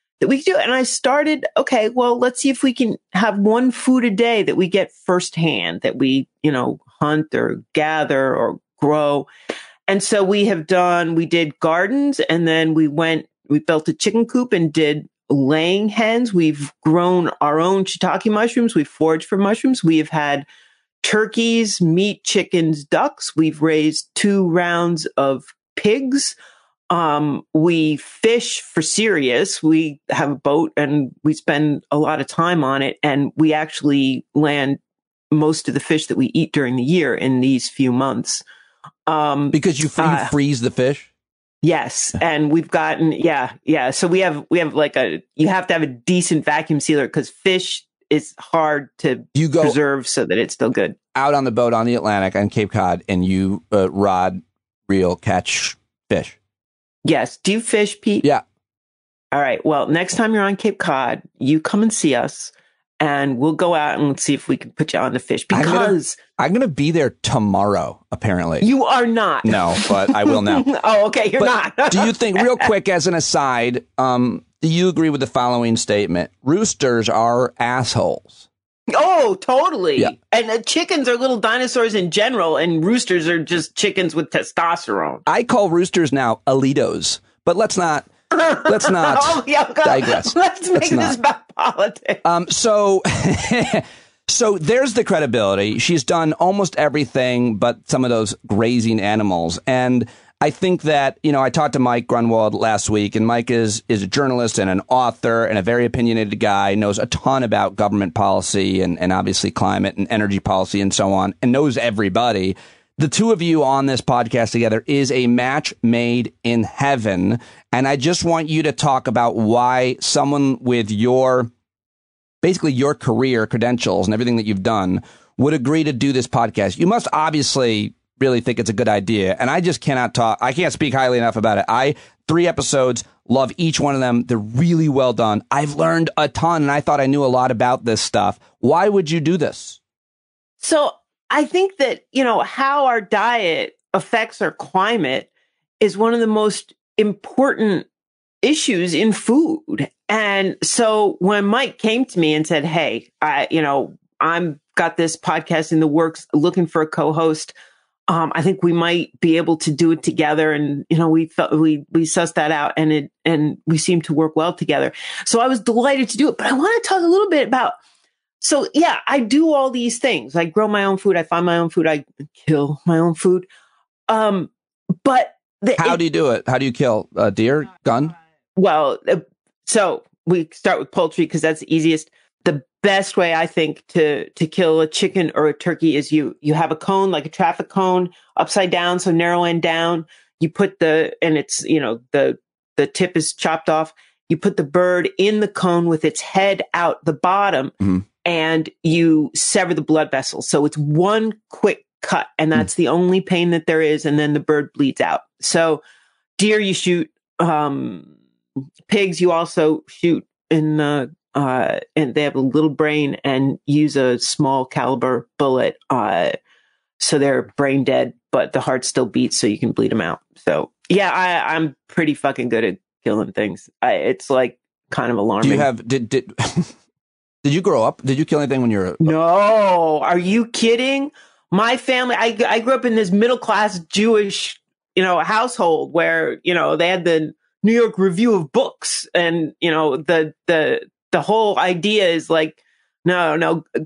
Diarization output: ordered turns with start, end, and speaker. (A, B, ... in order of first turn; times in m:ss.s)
0:00.2-0:09.3 A
0:09.9-0:20.5 A
0:21.0-0:26.4 A
0:26.9-0:34.8 A
0:35.3-0:38.4 A
0:39.1-0:40.3 A
0:39.5-0:41.1 B
0:41.6-0:51.0 A
0:49.4-0:49.8 B
0:51.2-0:56.4 B
0:57.0-0:58.3 A
0:59.3-1:06.2 A
1:05.5-1:08.7 B
1:08.6-1:12.7 A
1:09.4-1:10.7 B
1:11.4-1:18.5 B
1:18.9-1:25.2 A
1:25.3-1:28.1 B
1:28.3-1:32.2 A
1:28.6-1:31.2 B
1:32.2-2:01.5 B
2:02.4-2:19.8 B
2:20.6-2:25.3 A
2:25.8-2:27.9 A
2:28.4-2:37.5 A
2:38.1-2:47.8 A
2:48.4-2:53.5 A
2:54.1-2:54.5 A
2:55.0-2:56.0 A
2:55.8-2:58.1 B
2:58.6-3:17.7 A
3:18.2-3:25.8 A
3:26.4-3:28.1 A
3:28.9-3:36.4 A
3:37.0-3:45.7 A
3:45.4-3:46.7 B
3:47.4-3:49.1 B
3:49.0-4:03.6 A